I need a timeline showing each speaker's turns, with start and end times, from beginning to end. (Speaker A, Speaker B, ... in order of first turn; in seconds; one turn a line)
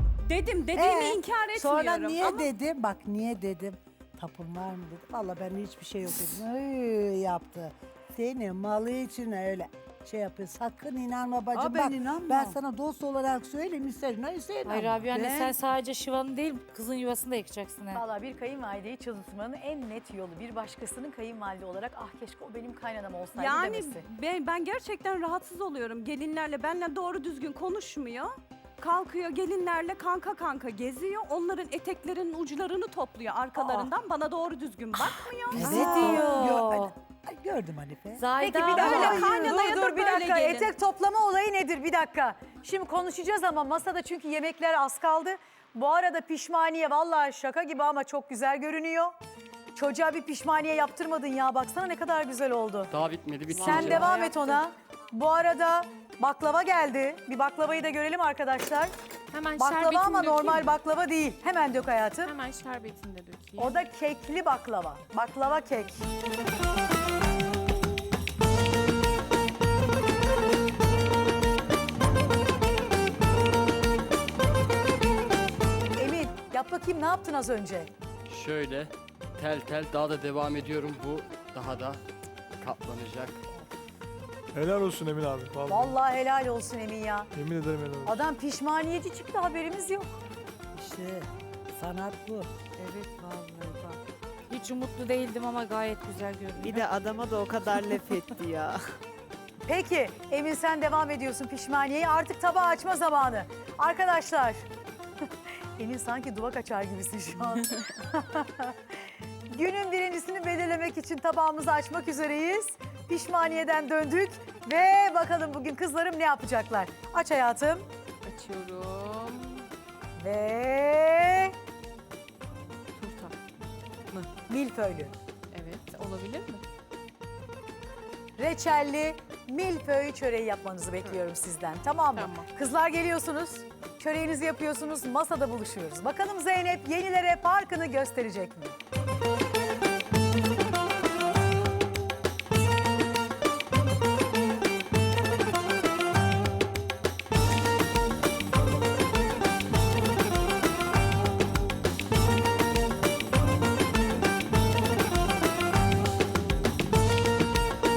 Speaker A: 0.3-2.5
Speaker B: 0.7-15.0
Speaker C: 11.5-12.6
Speaker D: 14.7-18.0
Speaker C: 15.1-15.6
Speaker E: 17.9-24.0
Speaker A: 23.3-36.3
Speaker B: 35.5-38.3
Speaker F: 35.6-36.4
Speaker C: 35.7-36.2
Speaker D: 36.1-36.9
Speaker D: 38.2-38.7
Speaker E: 38.4-49.1
Speaker A: 38.5-40.7
Speaker F: 38.7-39.2
Speaker E: 49.8-52.9
Speaker G: 52.9-54.1
Speaker E: 53.5-58.9
Speaker F: 53.5-54.6
Speaker F: 59.3-60.7
Speaker E: 59.5-62.4
Speaker F: 62.2-63.7
Speaker E: 63.6-66.1
Speaker E: 76.0-77.9
Speaker G: 78.3-82.0
Speaker G: 82.6-83.4
Speaker H: 84.5-86.0
Speaker E: 85.7-87.3
Speaker H: 87.3-88.2
Speaker E: 88.0-90.2
Speaker B: 90.7-92.5
Speaker C: 92.8-94.0
Speaker D: 94.5-96.6
Speaker I: 96.5-98.8
Speaker E: 99.7-104.6
Speaker E: 105.8-108.7
Speaker E: 109.5-117.9
Speaker F: 118.2-119.6
Speaker E: 120.2-121.5
Speaker F: 123.0-123.3
Speaker E: 124.5-125.1
Speaker F: 125.5-126.6
Speaker E: 128.4-138.8
Speaker F: 132.2-132.5